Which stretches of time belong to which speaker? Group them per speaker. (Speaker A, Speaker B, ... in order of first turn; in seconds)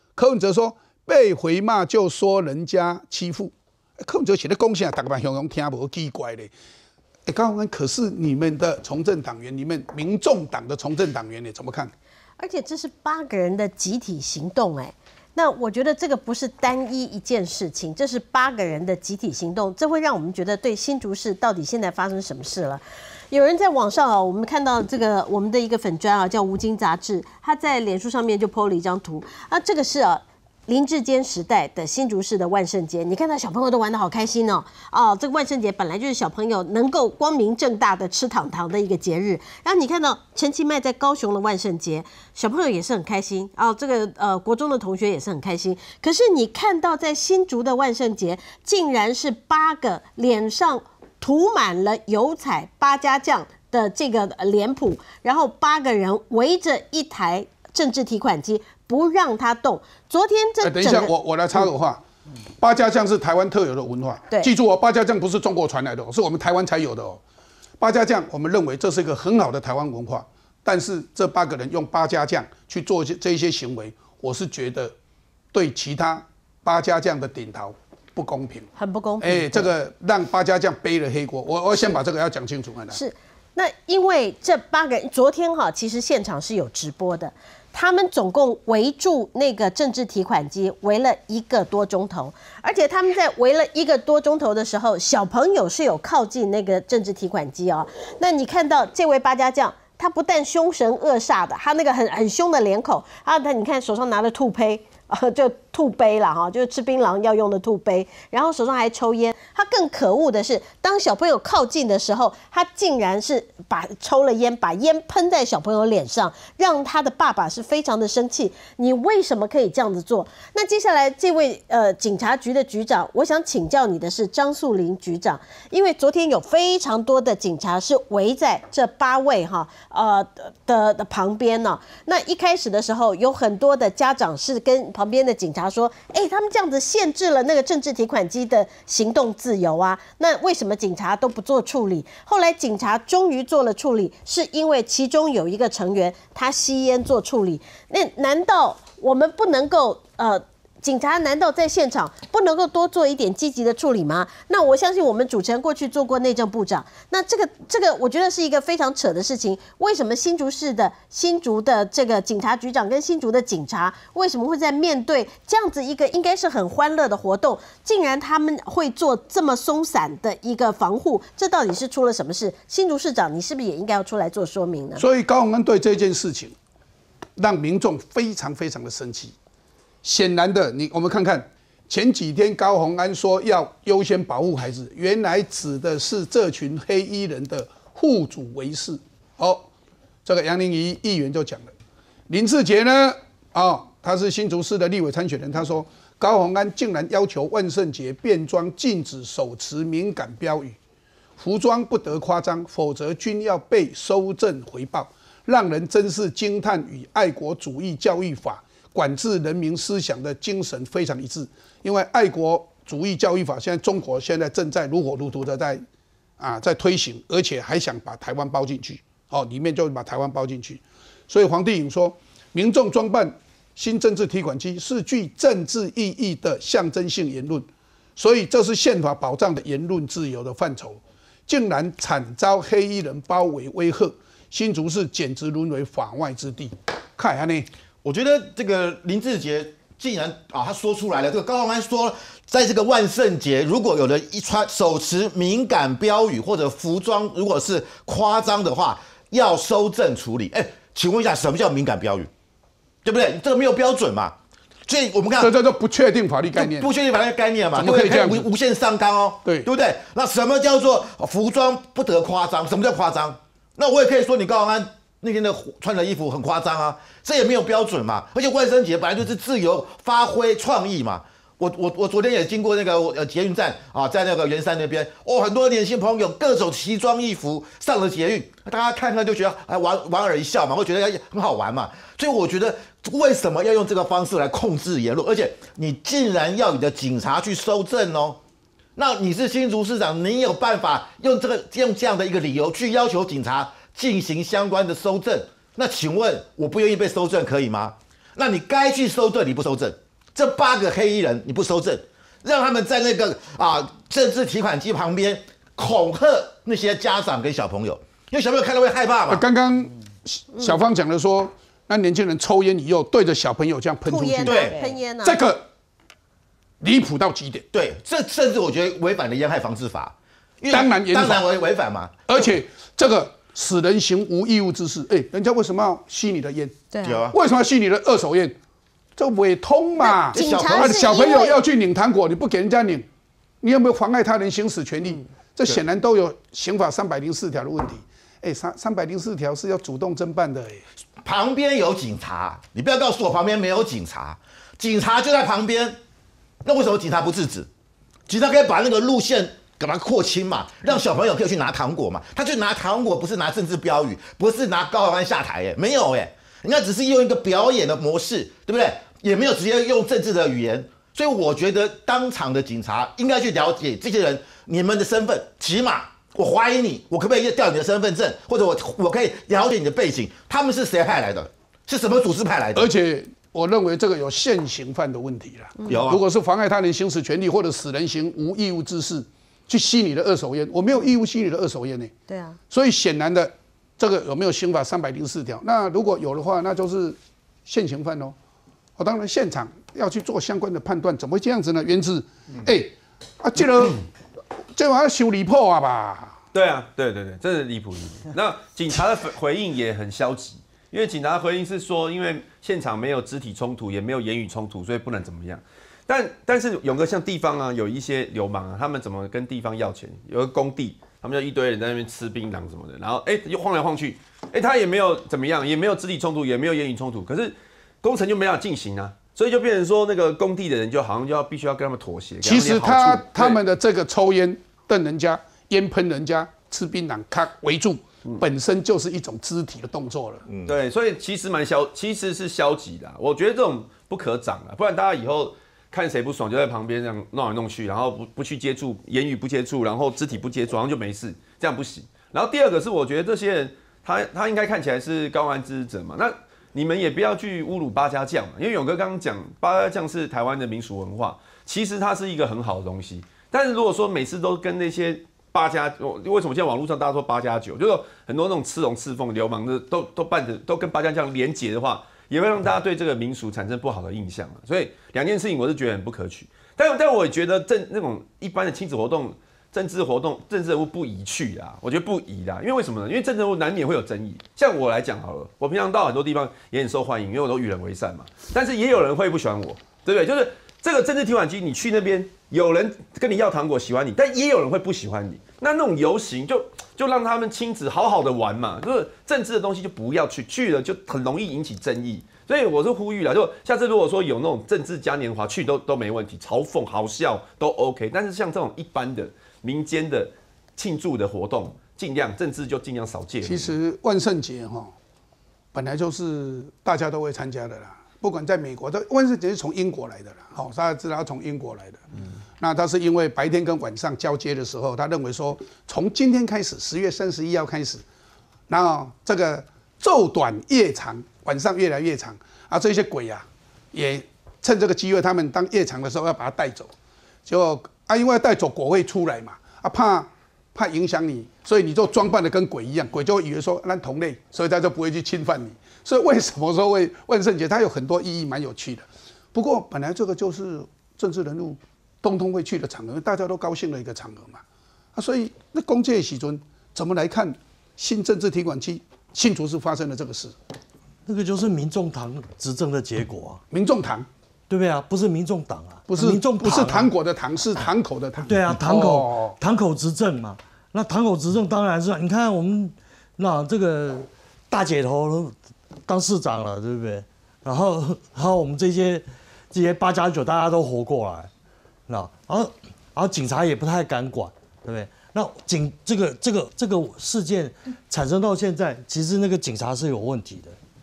Speaker A: 0.2-6.5, 7.3-11.9, 60.6-62.0, 62.6-67.2, 67.8-74.9, 75.5-78.7, 79.2-83.0, 175.0-176.6, 177.4-179.3, 180.0-189.7, 190.2-191.7, 192.3-200.8, 201.4-215.8, 216.4-237.7, 255.4-256.9, 257.8-258.5, 309.3-314.6, 315.2-315.7, 316.8-317.7, 320.7-321.5, 322.3-326.8, 327.3-328.6, 329.2-333.1, 333.6-340.9, 372.7-382.1, 382.7-388.4, 389.0-394.0, 394.7-396.4, 422.4-430.4, 503.4-504.9, 505.7-512.1, 512.6-518.0, 518.7-526.9, 527.5-544.6, 545.1-550.5, 553.7-554.3, 556.1-559.6
Speaker B: 12.4-61.1, 78.8-79.7, 82.9-175.0, 314.1-315.5, 326.9-327.2, 330.0-331.6, 382.3-382.6
Speaker C: 238.0-252.3, 253.1-255.5, 256.6-288.4, 289.0-309.4, 314.4-314.8, 317.7-322.2, 327.0-327.4, 330.3-331.0, 341.2-346.0, 346.6-347.7, 348.3-372.9, 375.9-376.2, 430.5-430.7
Speaker D: 396.5-423.6, 430.7-503.7
Speaker E: 551.3-553.6, 554.7-557.1, 558.4-565.5, 566.1-571.5, 572.1-580.8